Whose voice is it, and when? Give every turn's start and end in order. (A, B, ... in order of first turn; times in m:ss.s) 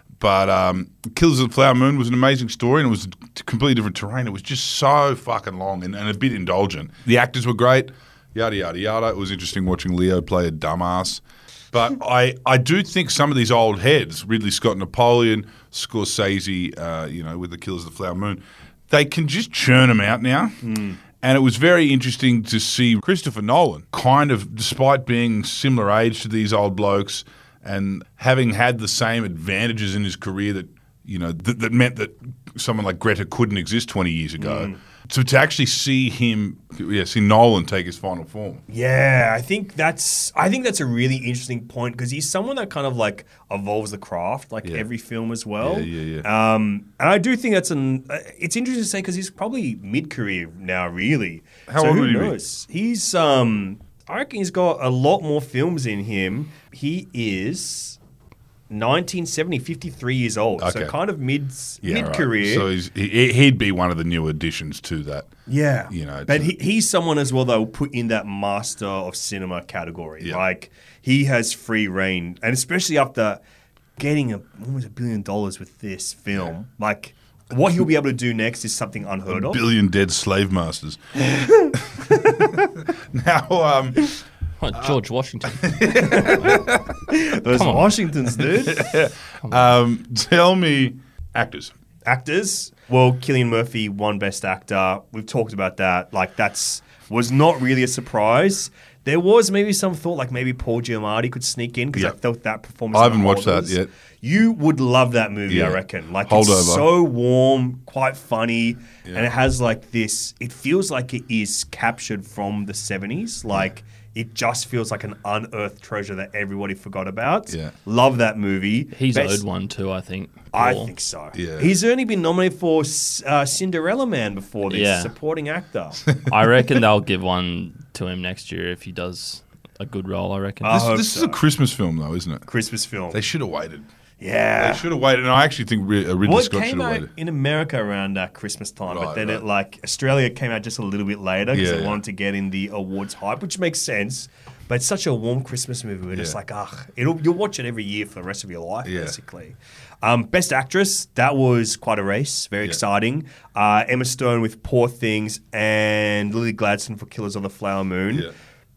0:00.2-0:20.6 A
0:20.6-0:21.0 B
0:21.2-0:38.6 A
0:34.4-0:34.8 B
0:38.7-0:58.0 B
0:45.6-0:46.3 A
0:51.7-0:52.4 A
0:58.7-1:02.7 B
1:00.6-1:00.9 A
1:01.8-1:05.3 A
1:05.5-1:13.4 B
1:05.9-1:06.5 A
1:14.0-1:19.6 B
1:19.3-1:24.2 A
1:21.3-1:22.5 B
1:24.6-1:26.7 C
1:24.8-1:26.9 A
1:26.0-1:29.0 B
1:27.5-1:28.5 C
1:28.7-1:31.7 A
1:29.4-1:29.7 C
1:32.1-1:59.4 B
1:42.9-1:43.9 A
1:45.5-1:46.9 A
1:57.5-1:57.7 A
1:58.9-2:00.9 C
2:00.5-2:06.1 B
2:01.3-2:01.7 A
2:04.7-2:05.1 C
2:06.3-2:10.8 C
2:10.6-2:11.4 B
2:10.7-2:12.5 A
2:12.5-2:13.2 B
2:13.1-2:13.9 A
2:14.2-2:14.8 B
2:14.6-2:17.1 A
2:16.2-2:38.3 B
2:18.9-2:19.4 A
2:21.5-2:22.0 A
2:28.8-2:29.2 A